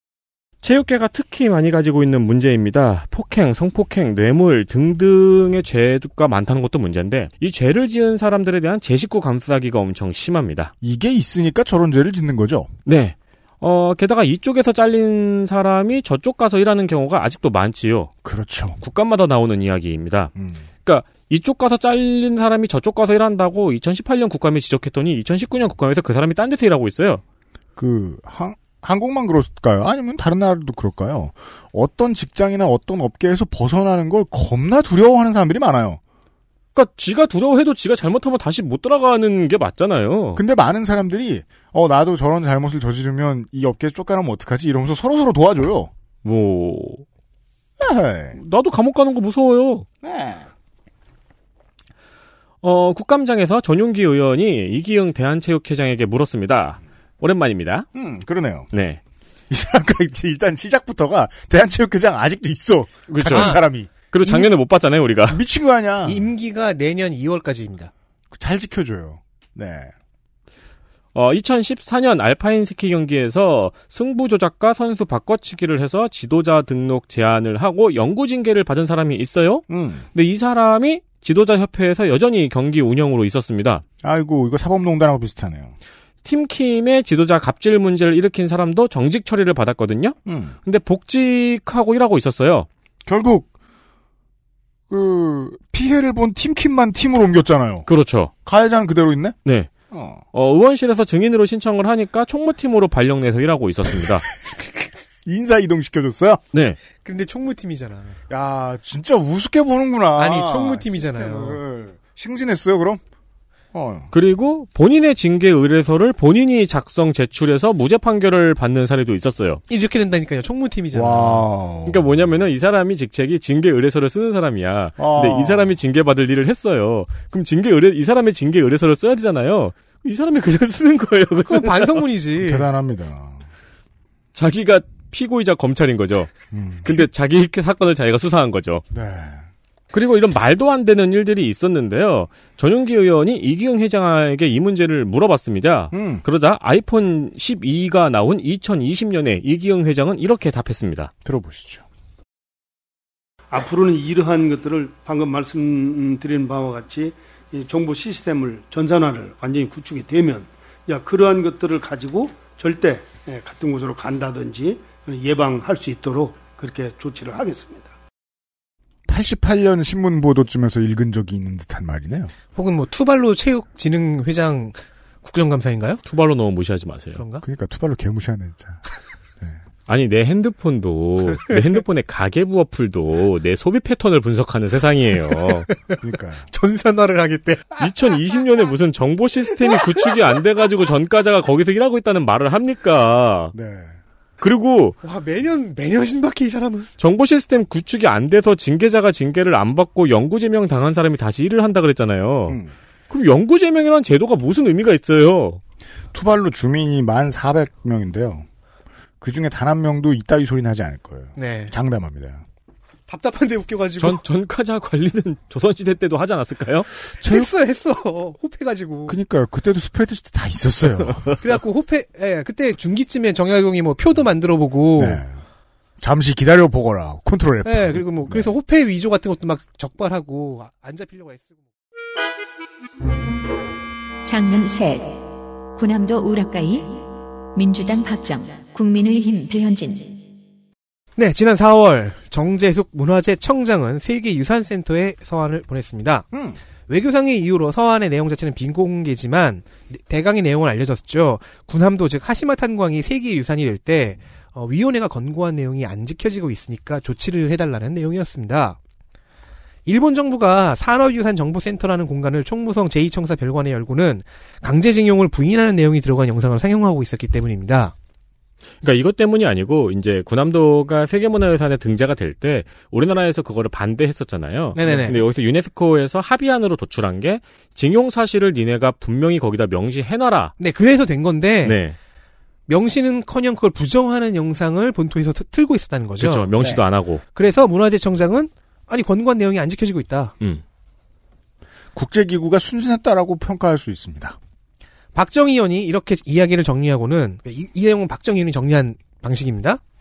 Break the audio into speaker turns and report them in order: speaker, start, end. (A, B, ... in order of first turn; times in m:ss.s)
0:00.6-0:10.7 A
0:10.8-0:12.7 B
0:12.9-0:18.1 A
0:18.2-0:18.8 B
0:18.8-0:20.3 A
0:20.4-0:20.6 B
0:20.8-0:27.2 A
0:27.8-0:36.0 B
0:36.8-0:40.4 A
0:40.4-0:45.9 B
0:46.2-0:47.0 A
0:47.8-0:48.4 B
0:48.4-0:49.9 A
0:50.0-0:50.5 B
0:52.6-0:57.9 A
0:58.0-0:58.7 B
0:58.7-0:59.0 A
0:59.5-1:04.5 B
1:03.1-1:05.4 A
1:03.3-1:03.6 C
1:05.3-1:06.3 B
1:06.0-1:07.9 C
1:08.3-1:09.9 B
1:11.1-1:23.8 A
1:19.7-1:20.1 B
1:24.0-1:25.7 B
1:26.2-1:32.7 A
1:30.3-1:30.6 B
1:33.1-1:33.5 B
1:34.9-1:37.9 B
1:37.9-1:38.3 A
1:38.4-1:39.4 B
1:39.4-1:39.7 A
1:39.9-1:40.2 B
1:40.3-1:44.3 A
1:45.2-1:46.4 B
1:46.5-1:46.8 A
1:47.0-1:48.2 C
1:48.3-1:53.0 B
1:50.2-1:51.6 C
1:53.7-1:54.1 B
1:54.1-1:59.6 A
1:59.7-2:01.4 C
2:00.9-2:02.2 B
2:01.9-2:11.9 A
2:05.0-2:05.7 B
2:11.5-2:12.7 C
2:12.4-2:13.4 B
2:14.4-2:16.3 A
2:16.5-2:16.9 B
2:16.8-2:18.8 A
2:18.9-2:19.4 B
2:19.9-2:31.1 A
2:25.9-2:26.2 B
2:31.2-2:31.8 B
2:33.5-2:47.9 D
2:49.1-2:52.3 B
2:52.6-2:56.0 C
2:56.0-2:57.2 A
2:57.2-2:57.4 C
2:57.4-2:58.8 B
2:59.9-3:05.7 A
3:05.7-3:06.0 C
3:06.0-3:06.5 B
3:06.5-3:07.9 C
3:07.8-3:13.5 A
3:13.5-3:14.0 B
3:14.4-3:15.0 A
3:15.0-3:16.9 C
3:17.0-3:22.6 A
3:22.5-3:22.7 B
3:23.1-3:25.6 A
3:26.1-3:28.5 B
3:29.2-3:32.4 B
3:31.4-3:31.7 C
3:33.1-3:34.2 C
3:34.0-3:36.9 A
3:37.2-3:37.5 B
3:37.2-3:39.2 C
3:39.1-3:41.4 B
3:41.4-3:45.2 C
3:45.0-3:45.4 B
3:46.0-3:48.5 B
3:47.6-3:51.6 C
3:54.2-3:55.2 E
3:55.7-3:57.0 E
3:57.6-4:00.2 E
4:01.2-4:06.3 C
4:06.3-4:06.6 B
4:06.9-4:18.8 C
4:19.9-4:27.9 C
4:28.8-4:40.5 A
4:34.8-4:35.2 C
4:40.6-4:41.8 C
4:41.6-4:42.0 A
4:42.7-4:46.5 C
4:46.2-4:47.2 A
4:47.3-4:50.3 C
4:51.9-4:54.4 B
4:55.2-4:59.8 C